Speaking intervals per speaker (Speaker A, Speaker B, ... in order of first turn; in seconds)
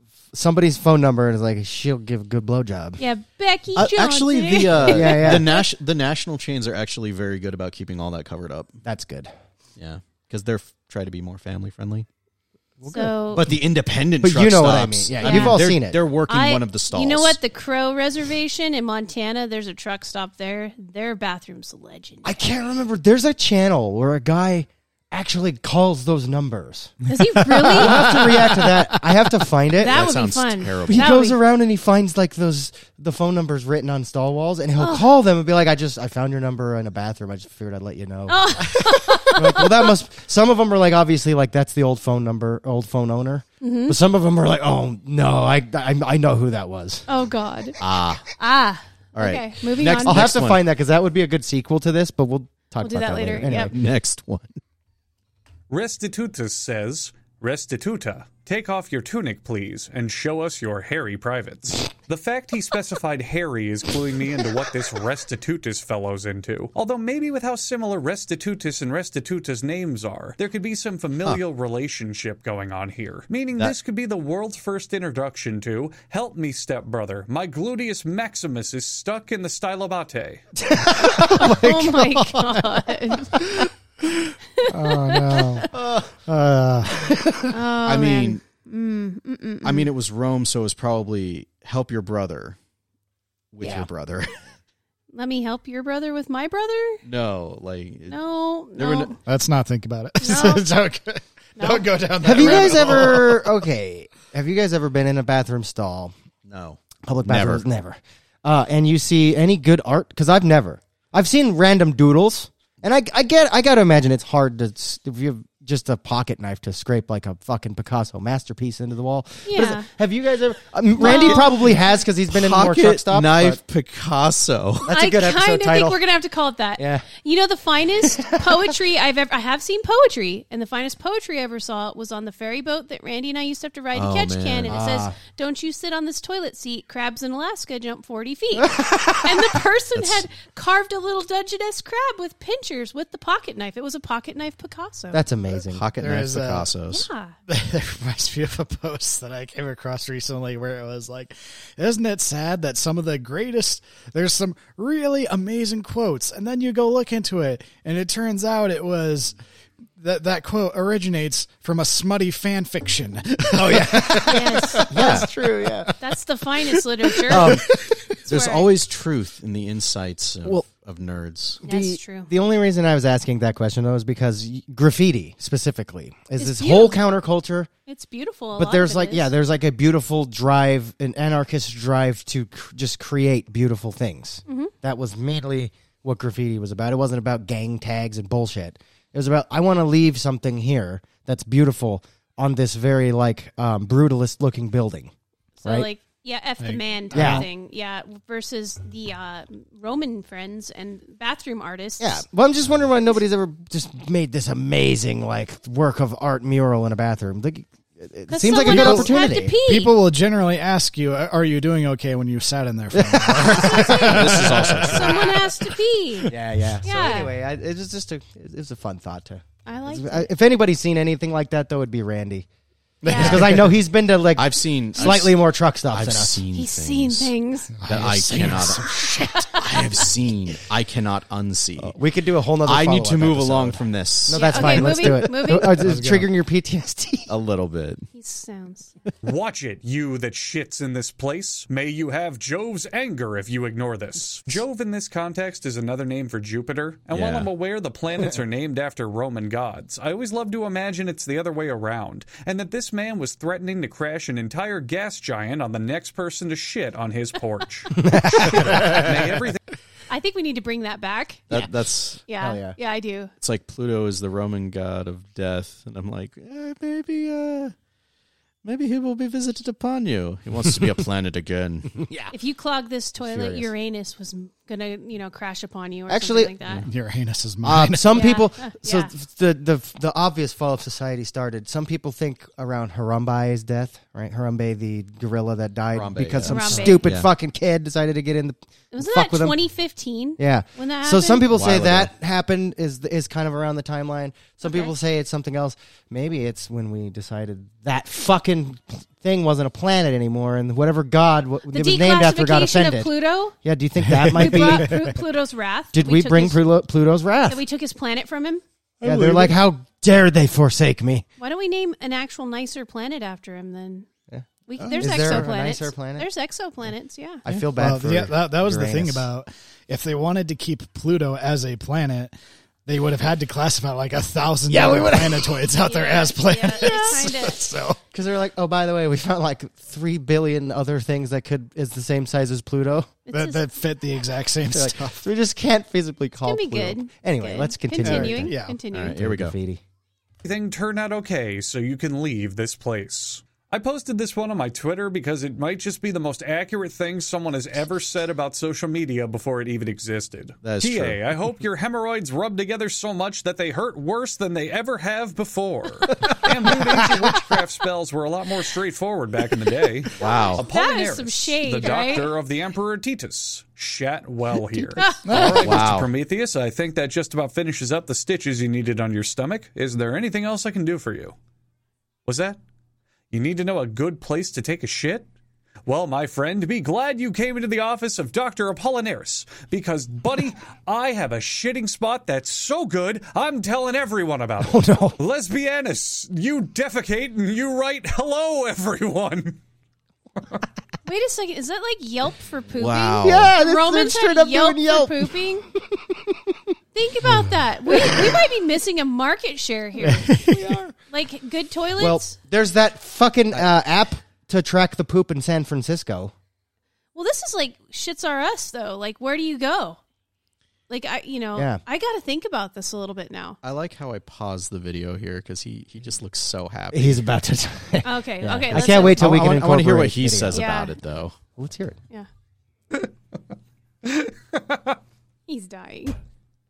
Speaker A: 0.3-3.0, 4.7-5.5, 8.8-9.3, 12.8-13.6, 14.2-16.0, 22.2-27.0, 27.7-30.2, 30.9-47.1, 50.0-53.7, 80.6-83.5, 85.7-86.1, 87.0-87.5, 93.6-93.9, 102.2-106.1, 107.0-123.6, 124.8-126.0, 126.8-127.0, 128.0-128.7, 134.7-135.2, 138.7-139.1, 145.1-145.8, 163.6-165.9, 167.3-167.7, 171.6-177.7, 178.6-195.1, 195.6-195.9, 197.1-197.5, 202.0-209.6, 212.9-214.2, 216.3-222.5, 223.1-226.4, 231.8-237.3, 257.9-259.3, 262.4-262.8, 272.0-272.3, 273.2-273.7, 276.1-276.6, 277.6-289.6, 290.4-305.0, 305.9-307.6, 309.0-311.2, 314.3-316.3, 317.4-319.3, 324.7-325.6, 326.8-327.2, 328.1-333.1, 334.7-338.5, 339.1-339.8, 384.6-385.2, 393.2-396.6, 397.9-398.4, 400.3-400.9, 402.0-406.3, 411.5-411.8, 416.9-420.7, 421.6-422.0
Speaker B: 3.0-5.6, 12.8-13.4, 15.2-15.6, 16.3-22.3, 27.1-28.2, 29.8-31.4, 34.8-35.0, 38.3-40.0, 43.6-44.0, 47.1-47.8, 48.4-50.3, 52.8-53.7, 81.1-83.6, 84.5-85.7, 87.5-89.9, 95.1-97.0, 98.1-99.2, 100.2-100.7, 101.6-101.9, 119.5-119.9, 121.0-121.6, 124.9-145.2, 146.9-147.3, 164.2-165.0, 166.0-167.6, 168.3-168.7, 171.6-172.3, 176.4-177.0, 177.9-179.3, 184.5-184.7, 195.6-202.2, 208.3-209.9, 213.4-217.3, 219.7-220.3, 223.0-223.4, 226.5-227.7, 229.1-230.0, 234.3-235.8, 238.1-238.9, 260.1-261.5, 262.3-263.3, 272.3-276.8, 278.1-279.1, 286.4-287.1, 288.9-291.5, 294.6-294.9, 301.7-303.5, 304.3-306.6, 307.5-308.6, 311.4-314.1, 314.7-317.4, 325.8-327.6, 333.3-333.6, 336.4-339.2, 360.6-362.3, 365.0-365.3, 391.0-395.6, 396.9-400.4, 401.1-402.4, 407.1-410.0, 410.9-413.6, 418.0-419.2, 420.5-420.9, 425.5-426.2
Speaker C: 3.8-8.8, 9.8-12.1, 13.3-17.4, 29.8-31.2, 47.8-48.2, 49.1-50.6, 53.5-54.6, 87.8-88.4, 89.6-92.6, 93.5-94.4, 97.0-98.2, 98.7-99.1, 102.4-102.9, 106.5-107.6, 121.0-121.5, 122.3-124.9, 133.9-134.8, 139.9-140.2, 145.7-147.1, 164.9-165.3, 168.2-171.6, 214.0-215.3, 223.1-223.5, 224.3-227.3, 227.9-228.9, 229.5-231.9, 232.6-235.2, 237.3-238.1, 247.1-247.5, 261.5-262.2, 263.4-267.7, 268.6-272.0, 285.9-287.3, 291.5-292.1, 338.9-339.5, 350.6-351.2, 360.2-360.6, 365.5-366.1, 392.7-393.5, 413.6-417.2, 418.7-421.4
Speaker D: 27.4-28.9, 84.7-85.7, 86.2-87.1, 99.2-103.6, 146.0-146.7, 147.5-159.3, 160.0-165.9, 167.2-168.1, 196.6-197.5, 208.6-215.6, 223.1-223.7, 227.8-229.5, 235.8-236.3, 276.9-278.2, 304.0-305.2, 309.0-309.6, 317.7-322.3, 322.9-328.0, 333.3-335.2, 338.0-338.8, 365.2-365.8, 397.2-397.5, 400.3-400.6
Speaker E: 55.7-80.4, 239.2-259.6, 340.4-371.3, 372.2-372.6, 373.3-375.3, 375.9-389.6, 424.0-424.9